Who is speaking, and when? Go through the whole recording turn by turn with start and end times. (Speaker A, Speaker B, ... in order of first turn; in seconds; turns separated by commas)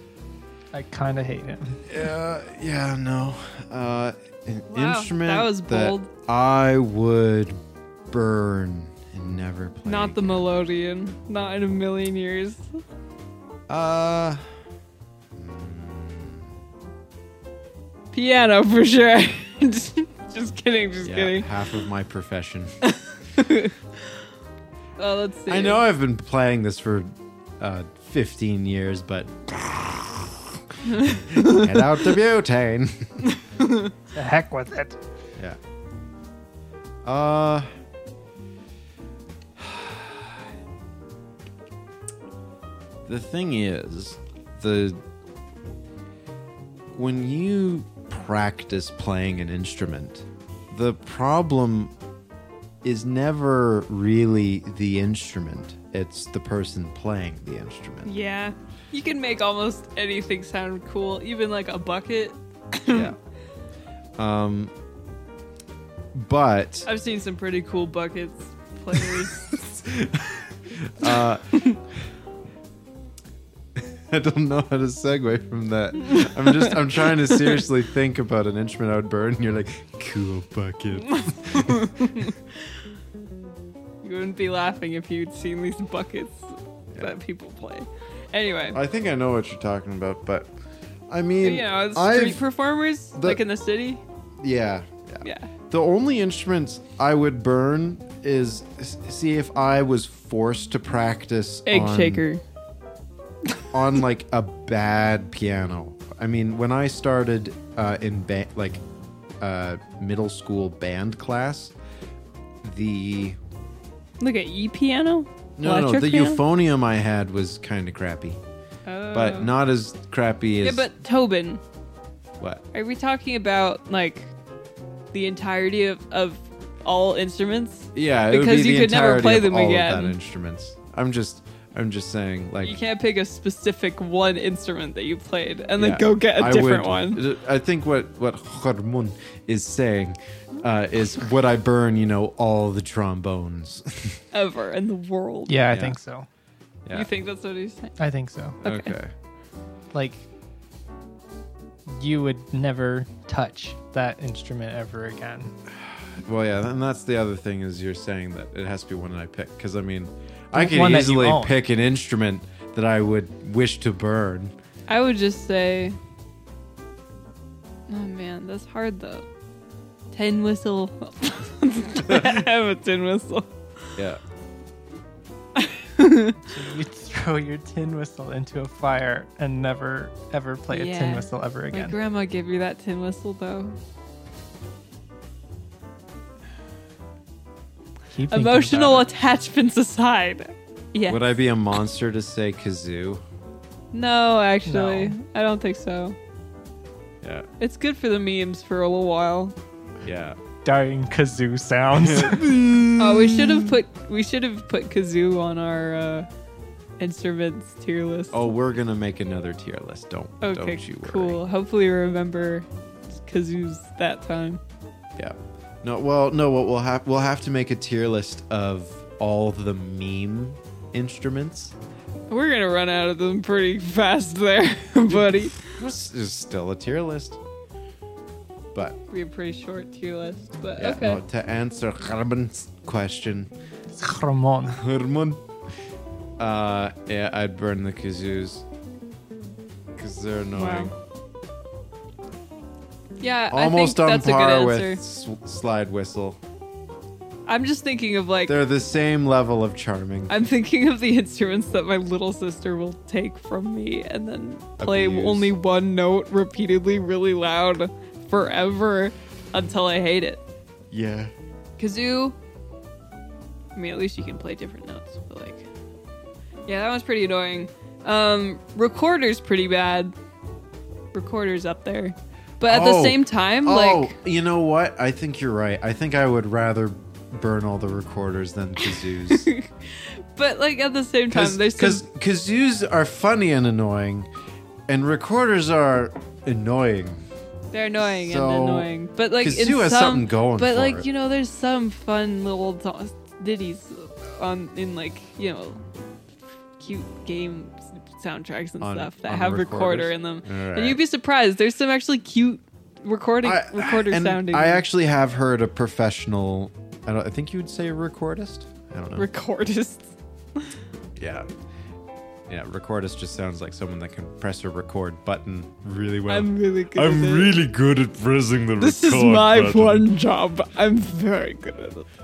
Speaker A: 0.7-1.9, Speaker B: 1.9-10.4, Speaker C: 4.7-6.1, Speaker C: 9.8-12.7, Speaker B: 13.7-14.5, Speaker B: 15.3-16.5, Speaker C: 18.1-21.5, Speaker B: 21.0-22.8, Speaker C: 22.9-23.8, Speaker C: 25.0-25.8, Speaker B: 25.5-33.4, Speaker C: 30.9-31.8, Speaker C: 33.4-33.9, Speaker A: 34.1-35.0, Speaker B: 37.0-37.7, Speaker B: 39.6-40.4, Speaker B: 43.1-45.0, Speaker B: 47.0-51.9, Speaker B: 52.8-58.1, Speaker C: 58.0-63.1, Speaker B: 62.9-63.2, Speaker B: 64.2-64.7, Speaker B: 66.1-66.9, Speaker C: 66.9-69.7, Speaker B: 68.9-71.4, Speaker C: 71.1-71.8, Speaker B: 73.8-82.3, Speaker C: 76.1-76.7, Speaker C: 81.1-82.4, Speaker C: 84.0-88.8, Speaker B: 88.7-90.5, Speaker B: 91.1-92.4, Speaker C: 91.4-94.0, Speaker B: 93.2-93.4, Speaker B: 94.4-102.2, Speaker C: 95.2-95.5, Speaker C: 101.7-102.4, Speaker B: 103.7-108.8, Speaker B: 109.4-111.8, Speaker B: 112.6-113.4, Speaker C: 114.2-116.4, Speaker B: 115.6-118.4, Speaker C: 118.9-119.5, Speaker B: 119.1-120.9, Speaker C: 120.6-121.6, Speaker C: 122.7-124.3, Speaker C: 125.1-130.2, Speaker B: 127.9-132.8, Speaker C: 132.6-137.2, Speaker B: 135.8-144.2, Speaker C: 144.3-145.6, Speaker A: 145.5-146.3, Speaker B: 145.7-146.0, Speaker C: 146.9-148.0, Speaker A: 148.0-148.6, Speaker C: 148.6-149.0, Speaker B: 148.6-149.1, Speaker A: 149.9-150.2, Speaker A: 151.9-155.5, Speaker B: 155.8-164.5, Speaker A: 160.5-161.6, Speaker C: 164.9-166.0, Speaker C: 167.9-169.3, Speaker C: 170.1-173.5, Speaker C: 175.6-176.4, Speaker A: 176.5-181.9, Speaker C: 180.7-183.8, Speaker A: 188.1-189.1, Speaker C: 188.3-191.3, Speaker B: 191.1-193.2, Speaker C: 193.9-196.2, Speaker A: 194.7-195.2, Speaker B: 197.2-197.5, Speaker C: 197.6-199.6, Speaker B: 200.0-200.4, Speaker A: 200.6-202.6, Speaker B: 202.0-203.8, Speaker C: 203.0-206.3, Speaker C: 207.0-208.6, Speaker B: 208.3-211.4, Speaker C: 210.4-214.6, Speaker B: 215.2-221.8, Speaker C: 222.3-225.7, Speaker B: 225.1-227.4, Speaker B: 228.7-229.0, Speaker C: 229.1-231.2, Speaker B: 230.8-233.5, Speaker A: 233.9-234.8, Speaker B: 234.7-235.4, Speaker B: 236.4-238.7, Speaker B: 240.0-240.9, Speaker C: 240.5-240.9, Speaker C: 243.2-245.0, Speaker B: 243.5-246.4, Speaker C: 247.5-248.6, Speaker B: 248.5-250.4, Speaker C: 250.3-260.4, Speaker B: 254.8-255.5, Speaker B: 260.9-261.3, Speaker C: 261.8-262.4, Speaker C: 263.8-265.7, Speaker C: 266.7-270.1, Speaker C: 271.1-274.1, Speaker B: 272.6-279.5, Speaker C: 278.9-282.1, Speaker B: 281.3-284.3, Speaker B: 284.9-287.3, Speaker C: 287.7-295.8, Speaker B: 288.1-291.1, Speaker C: 296.8-304.9, Speaker B: 298.8-301.0, Speaker B: 303.4-309.3, Speaker C: 309.2-310.7, Speaker B: 311.2-311.5, Speaker B: 312.5-320.1, Speaker C: 316.3-317.6, Speaker C: 318.8-322.1